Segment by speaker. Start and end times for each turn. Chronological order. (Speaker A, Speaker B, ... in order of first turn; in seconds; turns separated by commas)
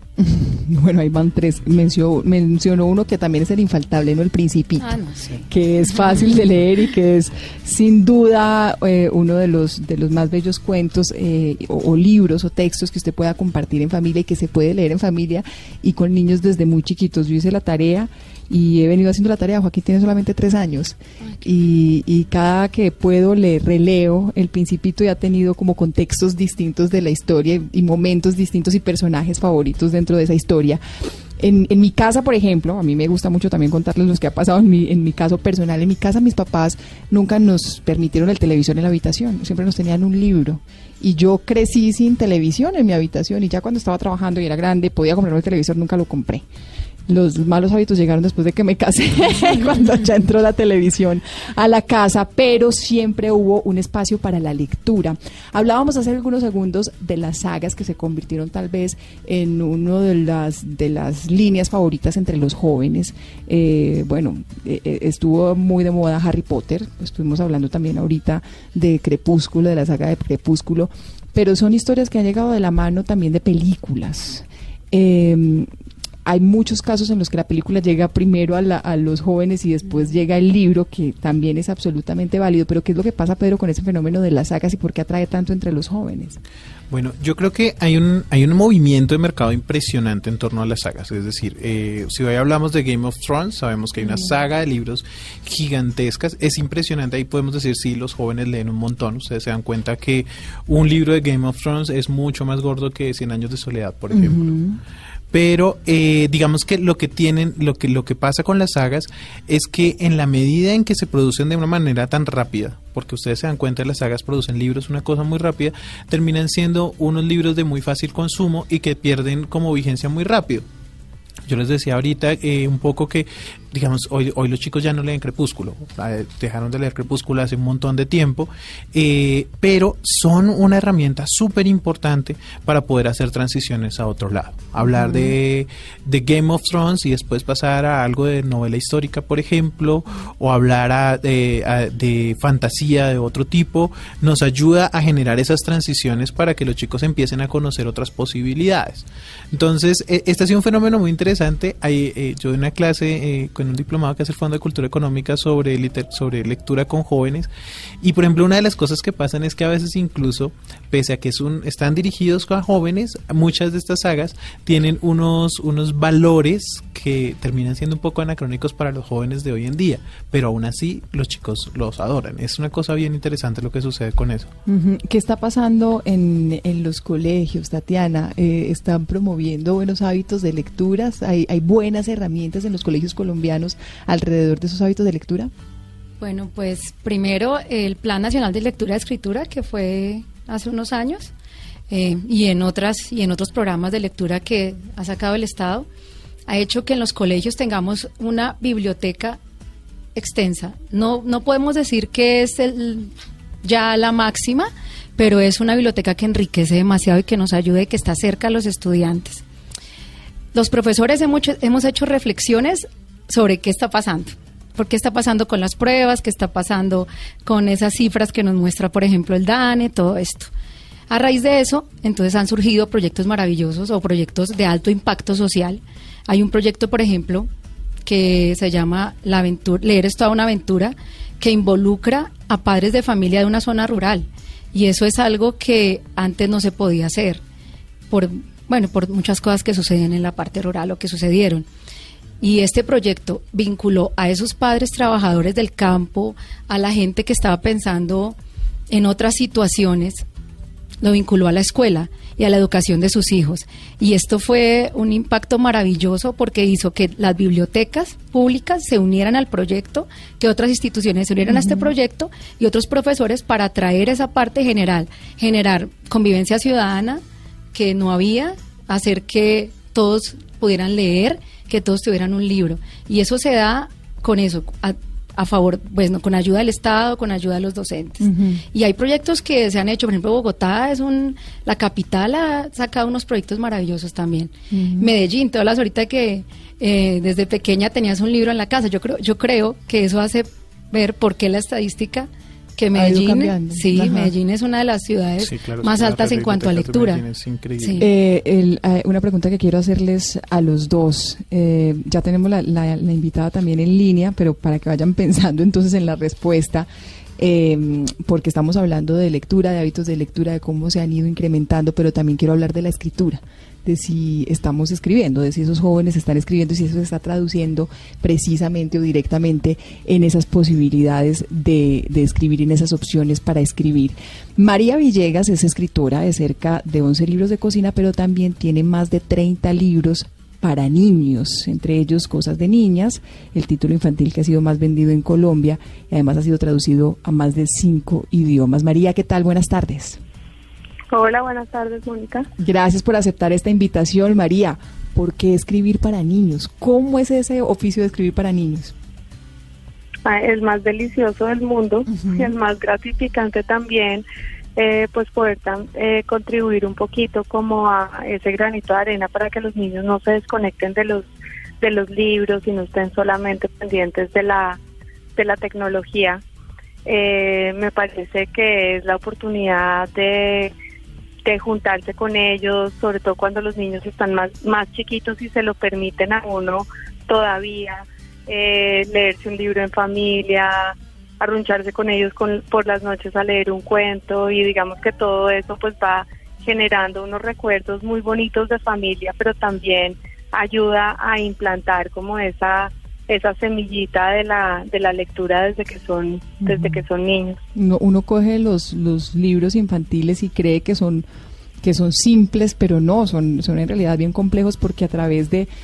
Speaker A: 0.2-30.8, Speaker B: 4.8-6.3, Speaker A: 31.4-46.5, Speaker A: 47.1-75.7, Speaker A: 76.2-86.4, Speaker C: 86.9-104.5, Speaker A: 104.1-104.8, Speaker C: 105.3-120.7, Speaker C: 121.5-157.5, Speaker A: 134.8-135.3, Speaker C: 158.0-174.5, Speaker A: 174.7-185.5, Speaker B: 186.2-191.3, Speaker B: 191.9-195.9, Speaker B: 196.5-199.4, Speaker B: 200.2-203.1, Speaker B: 203.6-209.4, Speaker B: 210.5-220.5, Speaker B: 221.1-227.5, Speaker B: 228.1-237.4, Speaker B: 238.1-241.7, Speaker B: 242.4-248.4, Speaker B: 248.9-250.2, Speaker B: 251.0-267.2, Speaker A: 261.5-261.9, Speaker B: 267.7-297.2, Speaker A: 278.2-278.6, Speaker A: 284.7-285.1, Speaker A: 292.9-294.3, Speaker C: 295.4-298.1, Speaker B: 297.8-298.1, Speaker A: 298.0-340.2, Speaker D: 341.1-342.5, Speaker A: 342.6-348.9, Speaker D: 350.3-354.2, Speaker A: 352.1-352.5, Speaker D: 354.8-361.3, Speaker D: 361.8-364.8, Speaker D: 365.4-366.4, Speaker D: 367.1-370.7, Speaker D: 371.5-397.6, Speaker A: 396.6-397.0, Speaker A: 397.8-401.2, Speaker A: 401.8-405.7